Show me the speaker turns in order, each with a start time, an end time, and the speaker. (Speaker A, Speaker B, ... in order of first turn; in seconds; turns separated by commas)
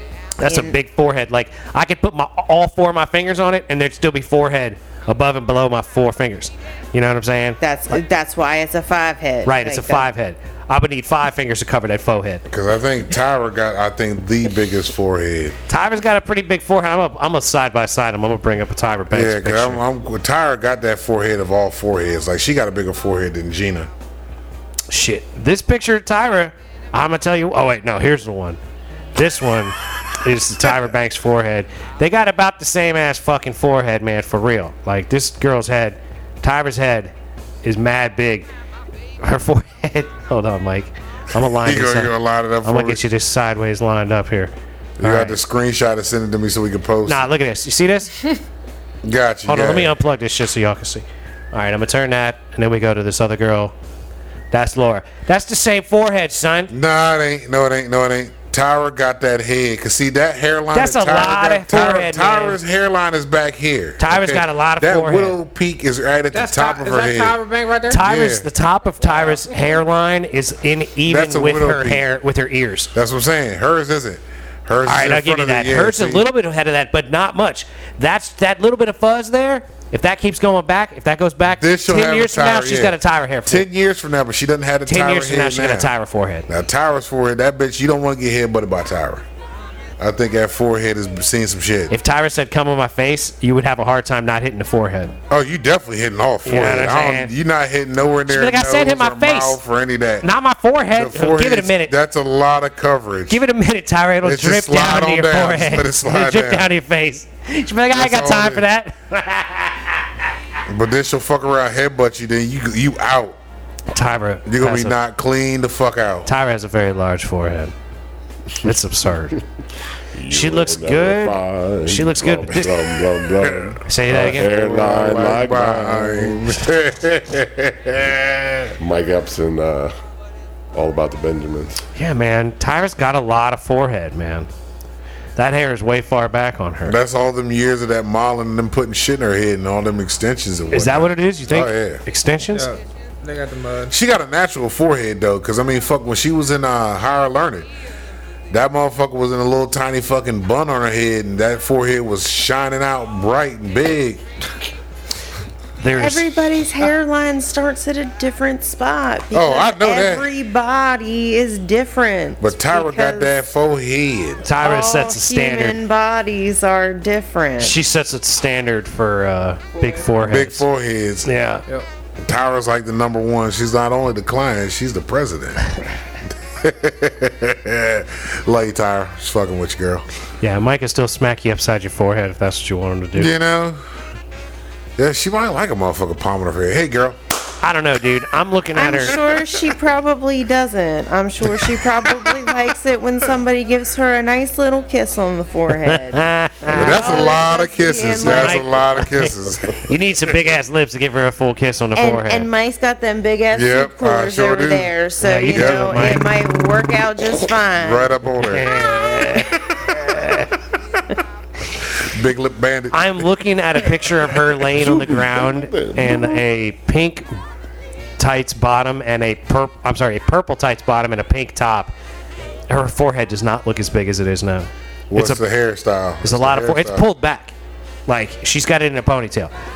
Speaker A: 0.4-8.0, Speaker B: 0.5-0.8, Speaker B: 7.6-10.1, Speaker A: 9.4-12.4, Speaker C: 12.5-15.6, Speaker A: 15.7-19.8, Speaker C: 19.1-23.9, Speaker A: 24.9-28.6, Speaker A: 29.1-37.1, Speaker A: 37.6-38.5, Speaker A: 39.2-45.4, Speaker C: 41.6-43.1, Speaker C: 45.0-47.3, Speaker A: 47.1-48.2, Speaker C: 49.0-50.0, Speaker A: 49.5-53.8, Speaker A: 54.5-56.7, Speaker C: 56.7-68.5, Speaker A: 60.7-62.6, Speaker A: 64.0-65.4, Speaker D: 66.3-68.0, Speaker A: 67.9-72.9, Speaker D: 69.0-69.5, Speaker C: 71.1-72.0, Speaker C: 72.9-76.3, Speaker A: 74.8-83.7, Speaker C: 81.5-85.9, Speaker A: 84.9-86.5, Speaker C: 86.5-89.2, Speaker C: 90.0-92.0, Speaker A: 91.9-95.2, Speaker C: 95.3-100.3, Speaker A: 96.5-97.3, Speaker A: 98.3-99.6, Speaker A: 100.2-101.9, Speaker C: 100.9-103.4, Speaker A: 103.3-110.1, Speaker C: 104.2-106.7, Speaker C: 107.9-108.7, Speaker C: 110.7-113.4, Speaker A: 113.9-115.0, Speaker C: 114.5-116.3, Speaker A: 116.3-117.7, Speaker A: 118.6-119.4, Speaker E: 120.1-126.5, Speaker A: 120.3-122.8, Speaker C: 123.4-128.8, Speaker A: 123.8-124.5, Speaker E: 128.8-129.9, Speaker E: 130.7-131.8, Speaker A: 132.0-134.5, Speaker A: 135.4-137.0, Speaker C: 136.8-142.0, Speaker A: 140.7-142.7, Speaker D: 142.5-143.9, Speaker C: 143.9-147.7, Speaker C: 148.5-154.2, Speaker A: 155.8-156.4, Speaker B: 156.0-163.4, Speaker C: 159.3-160.3, Speaker C: 162.4-164.5, Speaker A: 164.4-165.8, Speaker B: 164.6-167.8, Speaker A: 167.6-170.7, Speaker C: 170.2-171.3, Speaker A: 171.2-171.6, Speaker C: 172.2-175.7, Speaker C: 176.6-180.1, Speaker A: 180.4-183.3, Speaker C: 183.2-183.8, Speaker C: 185.0-187.2, Speaker A: 187.6-189.2, Speaker B: 188.8-196.2, Speaker A: 195.8-197.2, Speaker C: 196.7-199.8, Speaker B: 196.7-198.7, Speaker A: 198.2-199.3, Speaker A: 199.8-202.5, Speaker B: 201.9-208.1, Speaker C: 203.5-204.9, Speaker A: 205.2-206.3, Speaker C: 205.5-206.2, Speaker C: 207.8-208.7, Speaker A: 208.4-210.5, Speaker C: 211.9-213.2, Speaker A: 212.9-217.3, Speaker E: 214.6-216.4, Speaker A: 218.2-221.9, Speaker A: 222.7-225.4, Speaker C: 225.1-227.1, Speaker A: 226.2-227.5, Speaker A: 228.1-229.5